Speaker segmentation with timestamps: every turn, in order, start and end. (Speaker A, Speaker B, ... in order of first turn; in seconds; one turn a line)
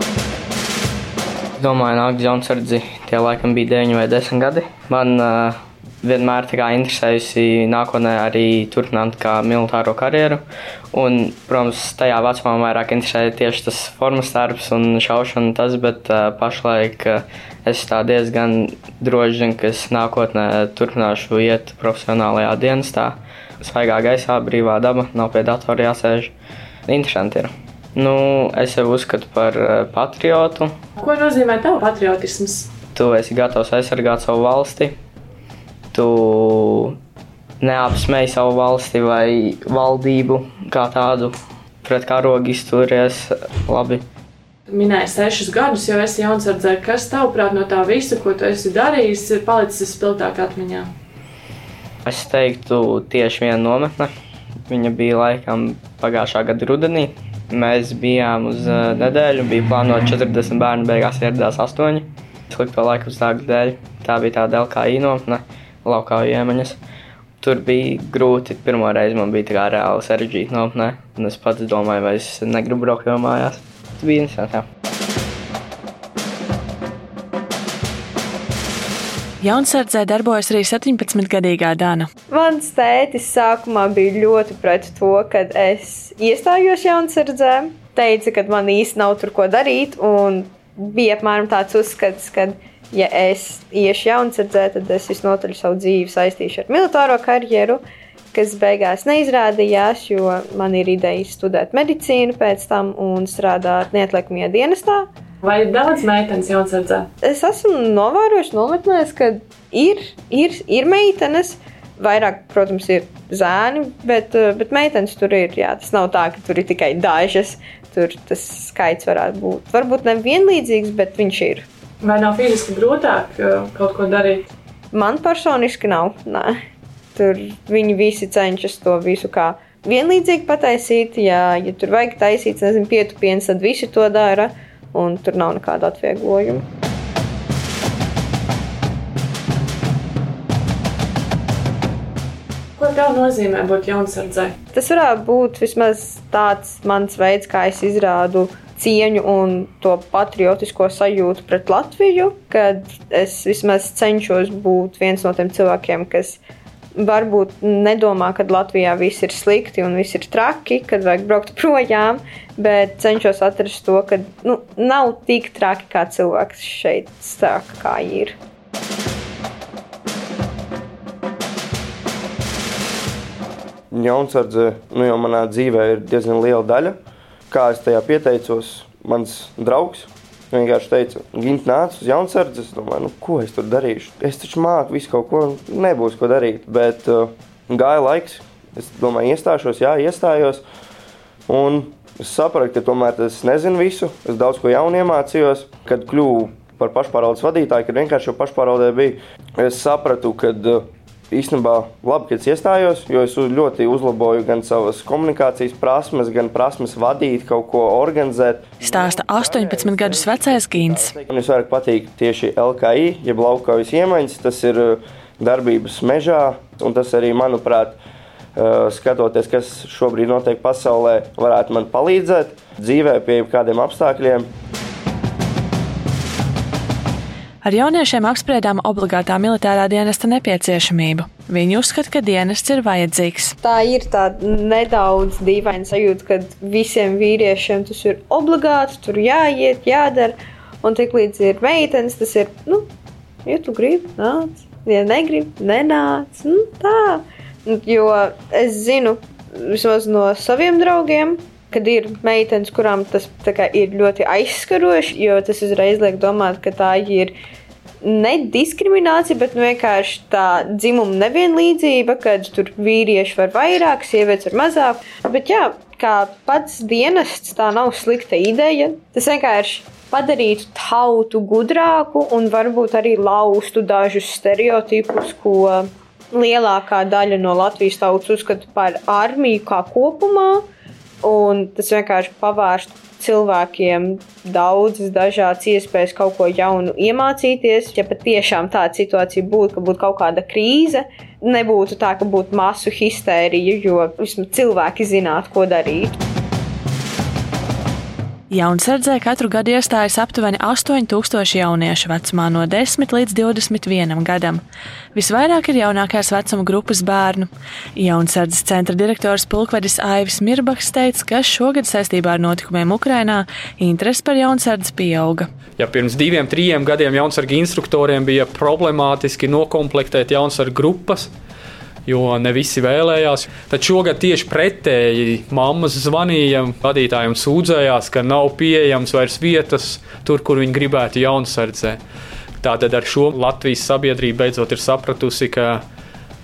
Speaker A: 1.6-10.4
Speaker A: 10.9-26.3
Speaker A: 26.9-30.7
Speaker B: 31.0-32.7
Speaker A: 32.9-34.9
Speaker A: 35.9-37.0
Speaker A: 37.6-44.0
Speaker B: 44.7-50.9
Speaker A: 52.0-54.1
Speaker A: 54.7-66.8
Speaker A: 67.4-74.6
Speaker C: 79.4-82.1
Speaker D: 82.3-97.8
Speaker D: 98.3-105.1
Speaker B: 105.4-107.1
Speaker D: 107.2-121.7
Speaker B: 122.0-124.5
Speaker D: 124.9-126.6
Speaker D: 127.1-136.6
Speaker B: 142.8-144.5
Speaker D: 144.7-156.4
Speaker D: 156.9-168.3
Speaker E: 173.9-176.9
Speaker E: 177.5-190.6
Speaker E: 191.5-218.0
Speaker C: 208.8-211.1
Speaker E: 218.6-224.5
Speaker C: 227.6-233.5
Speaker D: 233.6-242.9
Speaker D: 243.4-257.3
Speaker D: 258.0-280.6
Speaker D: 281.2-296.2
Speaker C: 298.5-304.6
Speaker C: 305.1-315.5
Speaker F: 315.8-321.3
Speaker F: 322.1-332.0
Speaker F: 332.6-335.8